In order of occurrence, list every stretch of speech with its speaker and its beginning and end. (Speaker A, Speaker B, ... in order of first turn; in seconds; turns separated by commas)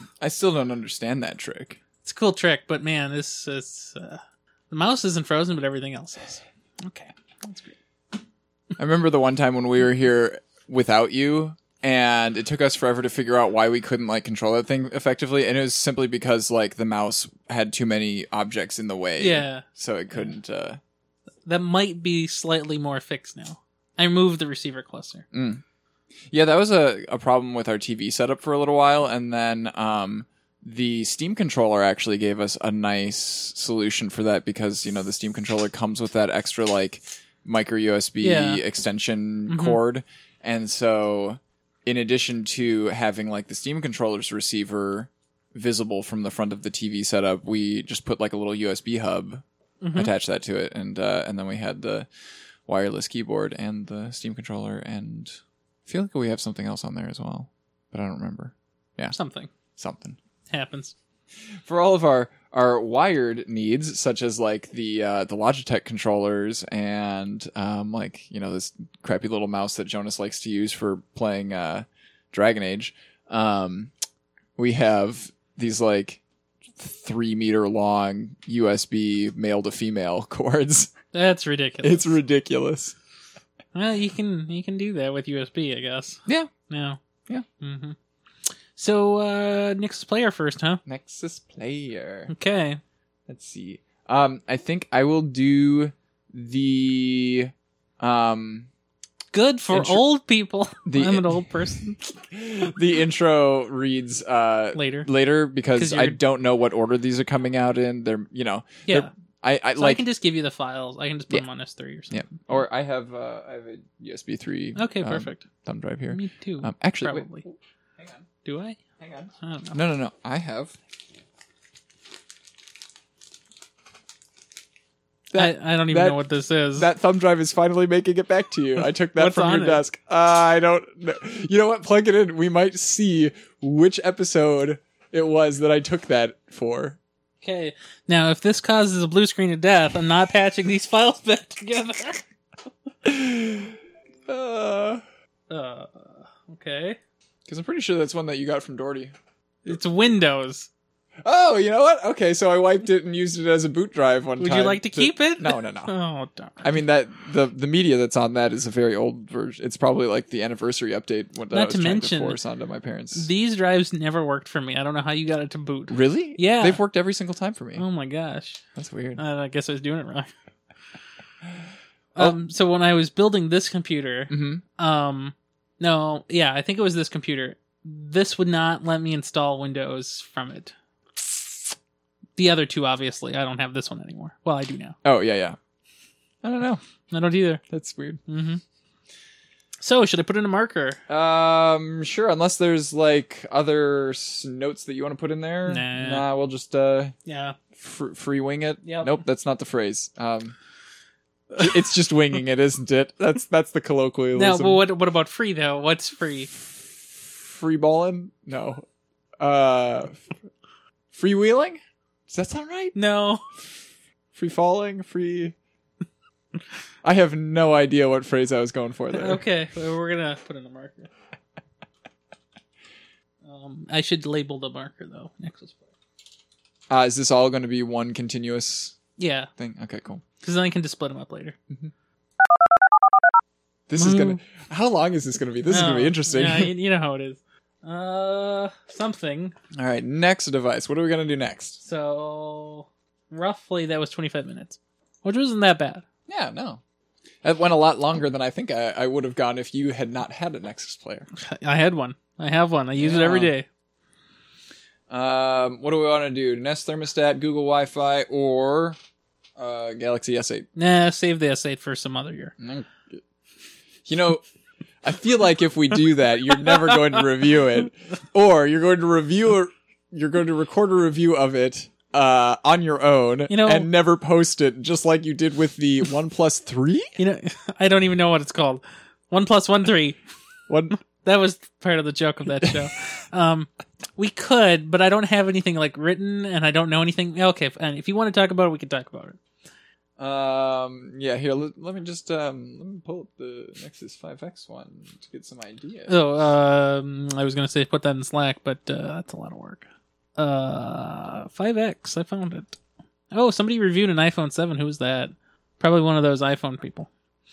Speaker A: 0.2-1.8, Speaker B: 2.0-7.7, Speaker A: 8.8-20.8, Speaker B: 19.2-19.6, Speaker B: 21.4-25.2, Speaker A: 25.3-25.6, Speaker A: 26.3-49.4, Speaker B: 38.2-38.6, Speaker B: 39.5-39.8, Speaker B: 49.8-50.1, Speaker A: 49.9-52.1, Speaker A: 52.7-59.1, Speaker B: 59.1-59.5, Speaker A: 59.8-60.2, Speaker B: 60.5-60.9, Speaker A: 61.6-73.9, Speaker A: 74.6-80.9, Speaker B: 81.1-82.2, Speaker A: 81.8-83.0, Speaker B: 83.7-87.0, Speaker B: 87.6-88.0, Speaker B: 88.8-90.8, Speaker A: 90.8-92.3, Speaker B: 92.3-92.8, Speaker A: 93.3-98.7, Speaker B: 99.3-102.0, Speaker A: 99.7-100.0, Speaker A: 100.8-101.4, Speaker A: 102.2-110.0, Speaker B: 104.7-105.1, Speaker B: 105.7-106.2, Speaker B: 109.8-112.4, Speaker A: 112.1-118.3, Speaker B: 114.8-115.5, Speaker B: 116.1-117.4, Speaker B: 118.4-118.8, Speaker A: 119.0-120.7, Speaker B: 119.4-119.8, Speaker A: 125.3-126.2, Speaker B: 125.3-126.9, Speaker A: 126.8-137.0, Speaker B: 129.1-129.8, Speaker B: 137.4-142.2, Speaker A: 143.0-145.0, Speaker B: 145.5-147.0, Speaker A: 147.4-149.1, Speaker B: 149.6-150.7, Speaker A: 151.2-155.9, Speaker B: 154.4-156.7, Speaker A: 156.6-163.3, Speaker B: 161.5-162.4, Speaker B: 163.1-166.8, Speaker A: 165.9-167.8, Speaker B: 167.8-168.6, Speaker A: 168.7-169.2, Speaker B: 169.2-170.3, Speaker B: 172.1-180.7, Speaker A: 174.3-174.6, Speaker B: 182.4-185.0, Speaker A: 185.0-185.6, Speaker A: 186.4-186.8, Speaker B: 187.1-187.6, Speaker A: 187.7-188.2, Speaker B: 188.3-188.6, Speaker B: 189.8-191.0, Speaker A: 191.1-197.1, Speaker B: 195.7-196.2, Speaker B: 197.2-197.6, Speaker A: 197.7-200.6, Speaker B: 198.8-199.2, Speaker A: 201.5-204.8, Speaker B: 204.3-206.5, Speaker A: 206.7-208.8, Speaker A: 209.4-210.3, Speaker A: 211.1-212.9, Speaker B: 212.9-213.4, Speaker A: 214.3-215.5, Speaker A: 217.0-219.4, Speaker B: 219.1-221.1, Speaker B: 223.4-225.8, Speaker A: 226.9-229.0, Speaker B: 229.2-229.5, Speaker A: 229.6-230.2, Speaker B: 230.4-231.6, Speaker A: 233.9-236.7, Speaker B: 234.0-234.4, Speaker B: 235.7-239.6, Speaker A: 239.7-241.8, Speaker B: 241.8-246.0, Speaker A: 246.3-246.8, Speaker A: 247.4-251.3, Speaker B: 251.3-253.7, Speaker A: 253.0-253.5, Speaker A: 255.1-259.0, Speaker A: 259.6-260.7, Speaker B: 260.8-262.5, Speaker A: 262.6-263.2, Speaker A: 264.1-264.4, Speaker A: 265.0-277.1, Speaker B: 273.5-273.9, Speaker B: 277.2-280.2, Speaker A: 280.7-281.0, Speaker B: 281.1-289.4, Speaker A: 290.2-296.1, Speaker B: 296.1-299.9, Speaker B: 300.4-302.8, Speaker B: 303.3-307.1